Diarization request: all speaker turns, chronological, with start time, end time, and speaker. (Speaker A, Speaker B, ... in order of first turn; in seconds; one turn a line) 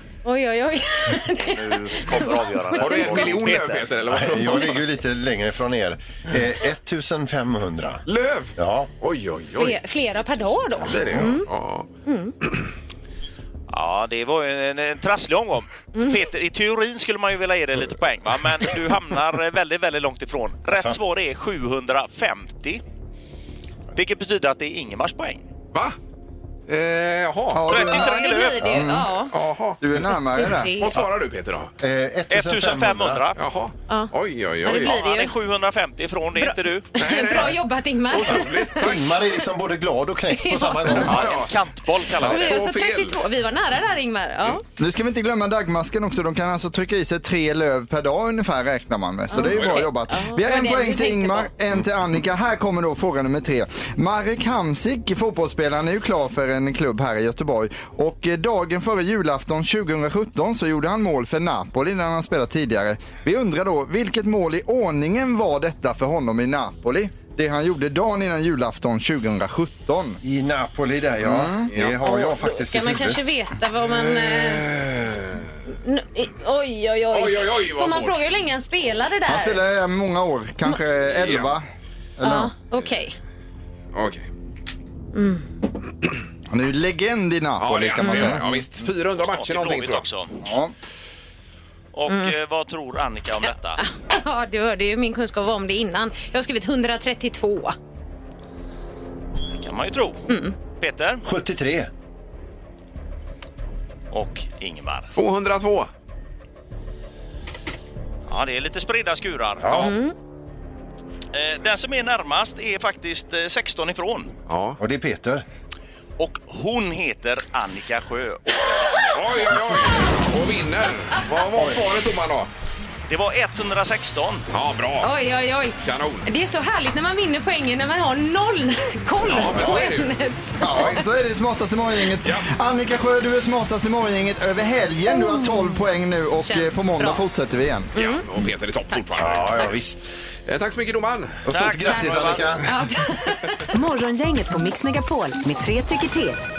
Speaker A: 0.2-3.3
Speaker B: 1.6-3.8
Speaker C: 2.8-4.8
Speaker D: 2.9-8.0
Speaker C: 8.1-9.8
Speaker D: 8.6-8.9
Speaker A: 9.6-11.5
Speaker C: 10.8-11.9
Speaker D: 11.0-11.3
Speaker A: 12.1-12.3
Speaker B: 13.7-22.8
Speaker D: 20.7-21.0
Speaker B: 23.9-25.4
Speaker C: 26.7-27.8
Speaker E: 27.5-29.1
Speaker B: 27.7-28.7
Speaker A: 27.9-29.3
Speaker C: 29.3-29.8
Speaker E: 29.8-30.7
Speaker A: 30.4-31.0
Speaker C: 30.8-31.7
Speaker D: 31.8-33.2
Speaker B: 32.3-33.4
Speaker C: 33.4-35.0
Speaker A: 34.6-35.4
Speaker B: 34.7-36.9
Speaker A: 36.4-38.9
Speaker C: 37.0-39.2
Speaker D: 38.3-41.4
Speaker A: 40.3-41.3
Speaker B: 41.0-42.6
Speaker C: 41.0-41.5
Speaker C: 42.1-43.2
Speaker A: 42.2-44.6
Speaker E: 44.8-70.2
Speaker A: 49.3-51.5
Speaker C: 49.4-49.9
Speaker D: 70.2-73.2
Speaker E: 71.2-71.7
Speaker C: 71.7-72.0
Speaker A: 72.0-74.7
Speaker C: 74.0-75.5
Speaker A: 75.7-79.6
Speaker C: 77.1-78.2
Speaker E: 79.3-81.7
Speaker C: 81.2-81.5
Speaker E: 82.2-82.5
Speaker A: 82.2-83.2
Speaker C: 83.9-84.3
Speaker A: 85.1-85.5
Speaker E: 86.5-88.5
Speaker C: 87.6-90.1
Speaker A: 88.0-88.4
Speaker B: 89.2-90.4
Speaker E: 90.4-90.7
Speaker B: 91.9-93.8
Speaker A: 92.1-92.3
Speaker A: 93.8-97.8
Speaker B: 99.5-101.2
Speaker A: 100.3-100.6
Speaker D: 101.2-101.9
Speaker B: 104.1-105.1
Speaker C: 105.2-105.9
Speaker B: 108.3-109.9
Speaker D: 109.6-109.9
Speaker A: 109.7-110.2
Speaker B: 111.3-114.3
Speaker C: 114.5-114.8
Speaker D: 114.8-115.5
Speaker B: 116.2-119.3
Speaker C: 119.0-122.5
Speaker B: 123.1-124.5
Speaker C: 124.5-125.1
Speaker A: 125.0-130.5
Speaker C: 125.8-126.3
Speaker C: 129.2-130.1
Speaker E: 130.6-137.9
Speaker C: 130.7-130.9
Speaker A: 135.1-135.8
Speaker A: 136.4-137.2
Speaker A: 137.9-138.3
Speaker C: 138.0-139.8
Speaker A: 138.9-139.3
Speaker D: 139.2-140.0
Speaker C: 140.5-141.4
Speaker D: 141.5-142.7
Speaker B: 141.5-142.6
Speaker A: 141.9-143.6
Speaker F: 143.7-146.4